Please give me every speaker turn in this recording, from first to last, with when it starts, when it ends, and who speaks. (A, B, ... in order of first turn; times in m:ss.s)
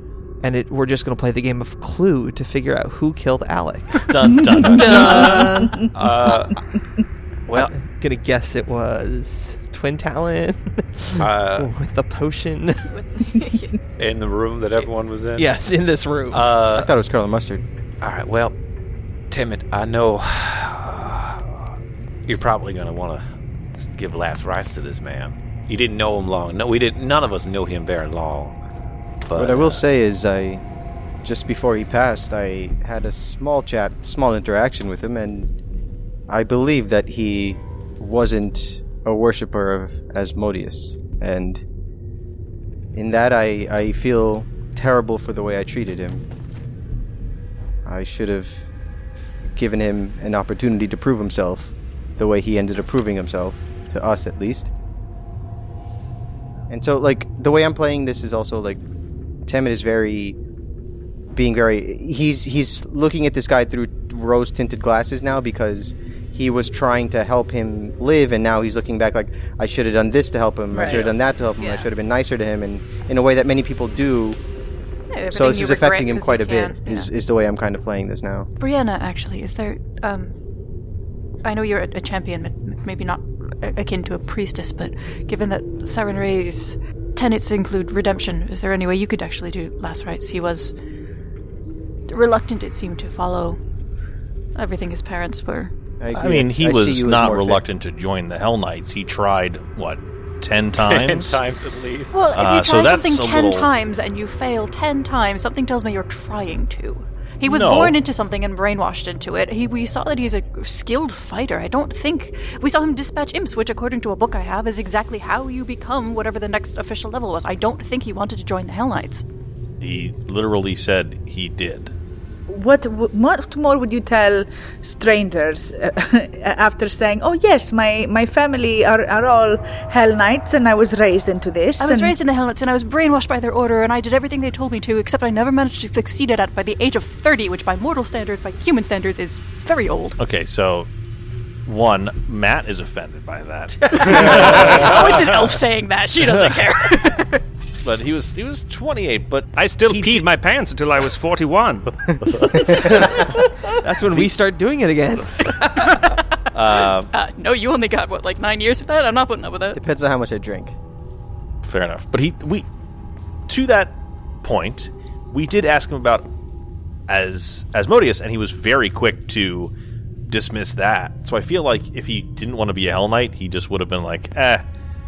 0:00.4-0:04.1 A
0:04.1-0:05.5 B
0:04.5-0:05.9 C
0:04.6-0:05.8 A
0:05.9-0:06.6 D
0:07.5-0:07.8 D
0:07.5-0:12.9 A
0:11.2-0:11.7 D
0:12.9-0:13.8 E
0:14.0-0:15.6 D
0:15.4-0:16.5 A
0:16.3-0:16.9 D
0:16.7-0:17.6 F
0:18.0-0:18.6 D
0:19.3-0:21.6 D
0:22.3-0:23.2 D
0:23.8-0:28.6 D
0:29.3-0:29.8 D
0:29.4-0:30.6 F
0:31.2-0:35.5 F
0:36.3-0:41.6 F
0:42.9-0:46.2 F
0:47.8-0:48.7 F
0:49.6-0:54.7 F
0:56.7-0:58.8 F
0:59.5-1:00.4 F
1:01.3-1:14.4 F
1:10.7-1:11.0 C
1:11.6-1:11.9 E
1:15.1-1:17.1 E
1:15.3-1:18.5 F
1:18.6-1:20.3 E
1:21.4-1:30.7 E
1:32.1-1:33.6 E
1:34.6-1:35.7 E
1:36.0-1:37.6 F
1:36.1-1:41.4 B
1:40.7-1:42.2 D
1:42.1-1:59.2 E
1:42.3-1:43.7 B
1:47.4-1:48.0 B
1:59.8-2:01.9 B
2:02.5-2:12.2 C
2:11.8-2:20.2 E
2:20.2-2:20.9 B
2:21.7-2:25.5 B
2:23.9-2:27.4 E
2:24.0-2:25.0 G
2:26.2-2:26.6 B
2:27.8-2:30.3 B
2:29.5-2:31.9 G
2:32.8-2:36.0 A
2:35.8-2:39.8 E
2:36.5-2:37.1 B
2:39.7-2:40.8 F
2:41.6-2:42.7 B
2:43.5-2:46.3 B
2:47.1-2:49.7 B
2:50.3-2:54.6 B